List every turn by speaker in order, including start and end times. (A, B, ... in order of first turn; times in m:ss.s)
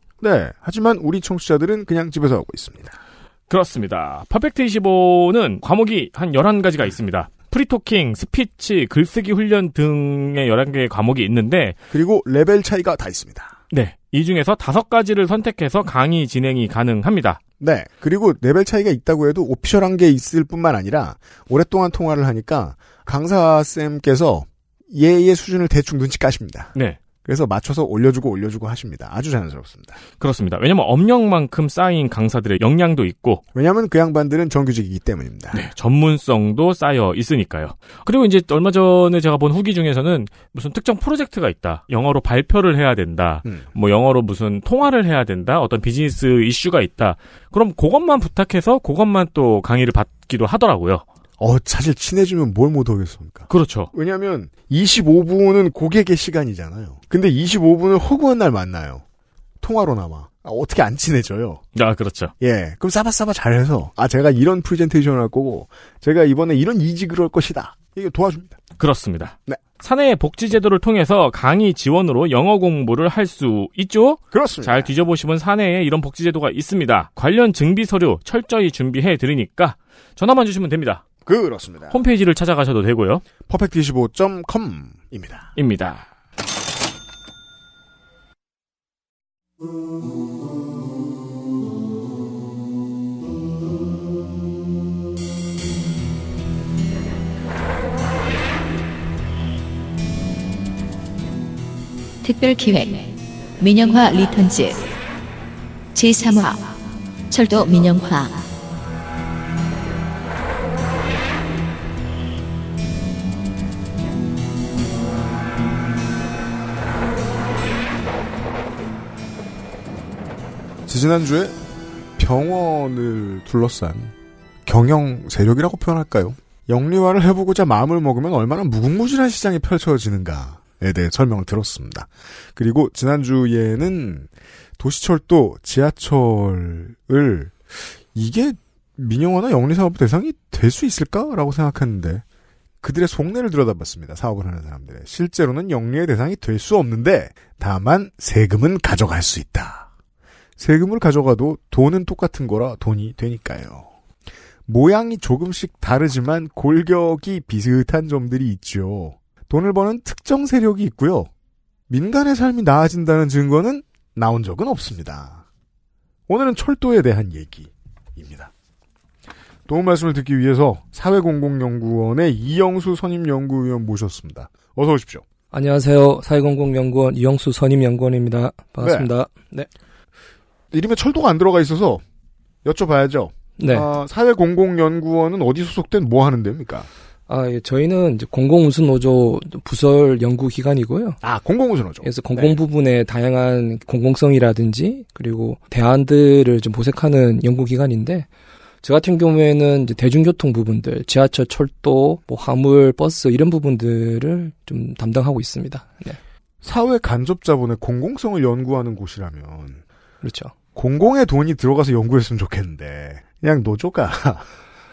0:00.2-0:03.0 A
0:03.5-0:11.8 B
0:11.9-0:13.6 A
0:13.7-0:17.4 B
0:17.6-0:30.0 A
0:30.2-0:33.4 B
0:33.5-0:35.7 A
0:35.5-0:51.0 B
0:51.4-0:59.0 A
0:53.5-0:53.9 B
0:59.6-1:01.6 A
1:01.8-1:02.3 B
1:02.4-1:08.6 A
1:08.8-1:21.0 B
1:14.3-1:14.9 A
1:21.3-1:22.0 A
1:21.9-1:23.2 B
1:23.5-1:25.5 A
1:25.6-1:26.1 B
1:42.2-1:44.9 C
1:46.0-1:46.7 C
1:47.3-1:48.4 C
2:00.9-2:01.6 A
2:02.2-2:04.1 A
2:04.7-2:22.2 A
2:22.8-2:29.9 A
2:30.6-2:33.9 A
2:34.7-2:41.3 A
2:41.9-2:45.4 A
2:46.3-2:48.5 A
2:49.7-2:55.2 A
2:55.5-2:59.7 D
2:58.8-2:59.1 A
3:00.7-3:02.0 A
3:02.6-3:06.9 A
3:03.6-3:03.9 D
3:07.3-3:11.2 D
3:11.2-3:12.6 A
3:12.0-3:18.3 D
3:18.8-3:26.2 D
3:26.6-3:29.8 A
3:30.2-3:30.5 D
3:30.8-3:34.5 A